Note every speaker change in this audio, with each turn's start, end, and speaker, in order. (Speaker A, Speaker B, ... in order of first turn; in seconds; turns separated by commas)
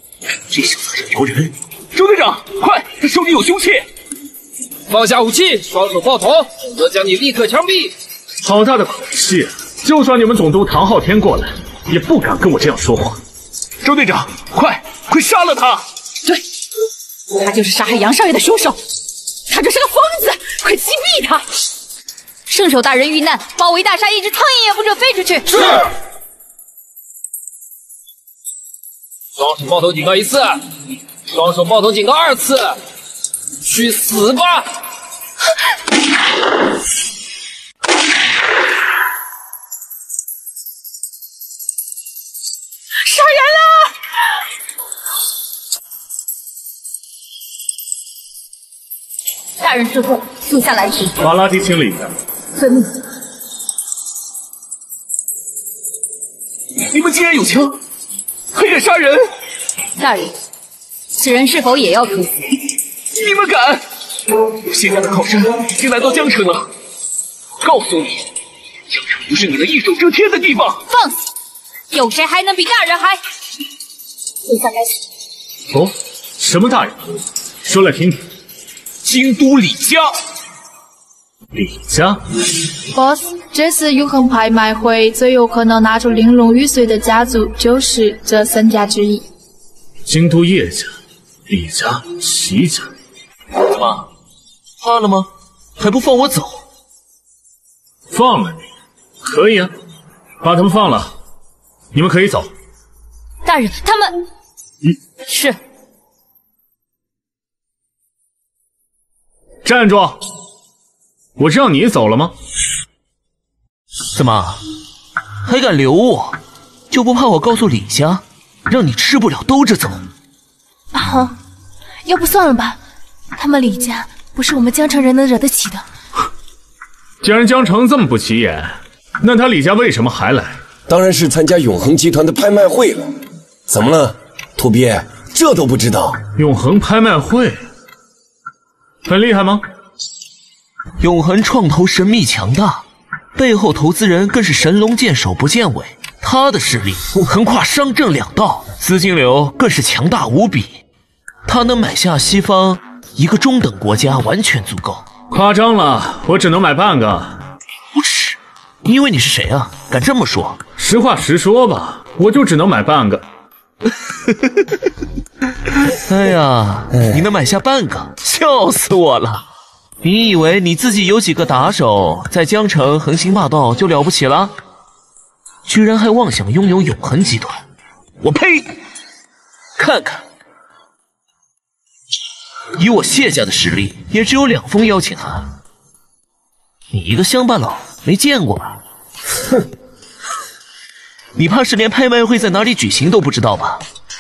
Speaker A: 0.5-3.9, Speaker B: 4.9-7.9, Speaker C: 8.4-13.2, Speaker A: 13.8-15.8, Speaker D: 17.3-18.8, Speaker D: 19.5-21.4, Speaker E: 22.5-25.8, Speaker B: 29.4-30.5, Speaker B: 31.3-32.7, Speaker B: 33.7-34.6, Speaker D: 43.0-43.9, Speaker E: 49.6-51.1, Speaker C: 51.2-52.1, Speaker E: 52.6-52.9, Speaker A: 56.8-57.8, Speaker A: 58.5-59.3, Speaker E: 60.0-60.3, Speaker E: 61.2-62.3, Speaker A: 63.1-63.8, Speaker A: 64.6-66.7, Speaker A: 67.6-68.2, Speaker A: 68.9-70.8, Speaker E: 70.9-71.1, Speaker E: 71.9-73.2, Speaker C: 75.7-78.2, Speaker A: 79.0-80.1, Speaker C: 81.5-82.2, Speaker F: 82.9-89.2, Speaker C: 90.0-90.9, Speaker C: 91.5-92.9, Speaker A: 93.5-94.1, Speaker A: 94.8-96.6, Speaker C: 98.1-98.6, Speaker C: 99.2-99.7, Speaker C: 100.4-101.1, Speaker C: 101.9-102.5, Speaker E: 103.4-104.2, Speaker E: 105.3-105.6, Speaker C: 109.6-110.2, Speaker C: 111.4-112.3, Speaker A: 114.1-114.6, Speaker A: 115.4-116.4, Speaker A: 116.9-120.0, Speaker G: 120.9-121.3, Speaker G: 122.0-122.8, Speaker G: 123.3-125.8, Speaker C: 127.2-130.6, Speaker H: 130.9-133.1, Speaker H: 133.7-136.2, Speaker C: 136.3-137.6, Speaker C: 139.1-139.6, Speaker A: 141.0-142.8, Speaker A: 143.3-150.8, Speaker A: 151.4-155.0, Speaker C: 155.3-157.4, Speaker A: 157.9-160.6, Speaker C: 160.8-163.2, Speaker A: 166.1-169.4, Speaker A: 170.0-174.5, Speaker A: 175.7-177.6, Speaker A: 178.2-178.7, Speaker A: 179.8-180.2, Speaker A: 182.8-185.5, Speaker A: 186.9-188.8, Speaker A: 191.3-193.8